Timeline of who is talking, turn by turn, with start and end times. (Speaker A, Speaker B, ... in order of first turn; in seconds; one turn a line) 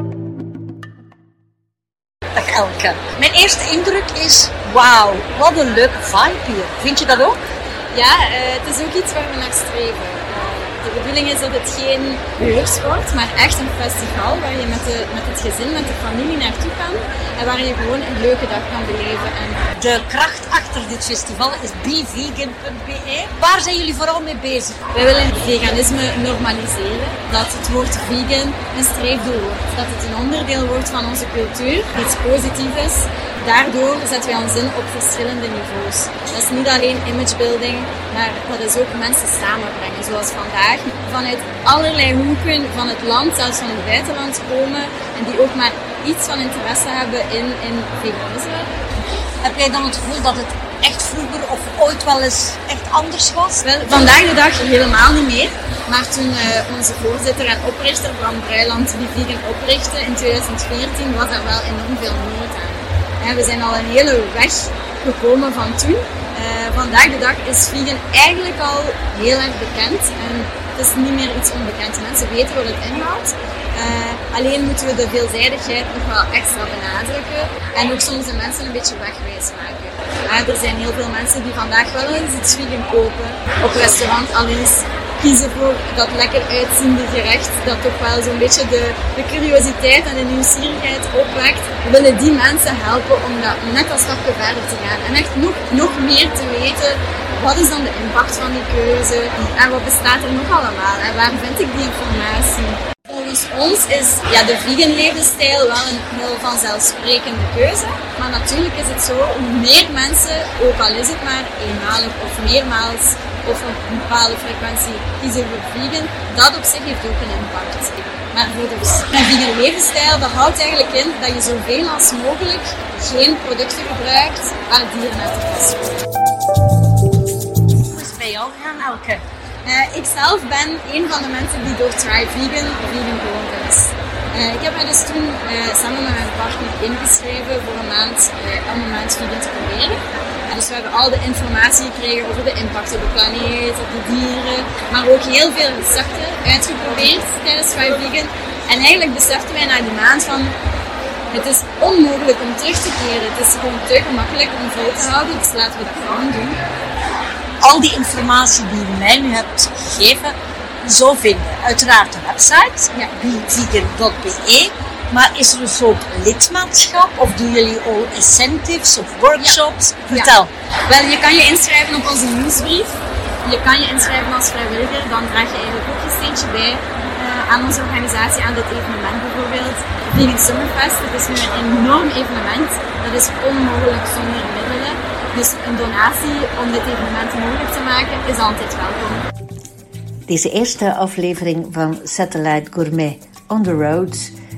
Speaker A: 2.3-7.4
Speaker B: 7.9-19.6
Speaker A: 19.7-24.9
Speaker B: 24.9-48.7
Speaker A: 49.4-53.6
Speaker B: 53.6-126.0
Speaker A: 127.9-129.2
Speaker B: 129.6-150.6
Speaker B: 151.3-156.6
Speaker A: 157.6-170.5
Speaker B: 169.4-172.9
Speaker B: 173.4-189.2
Speaker C: 190.3-194.3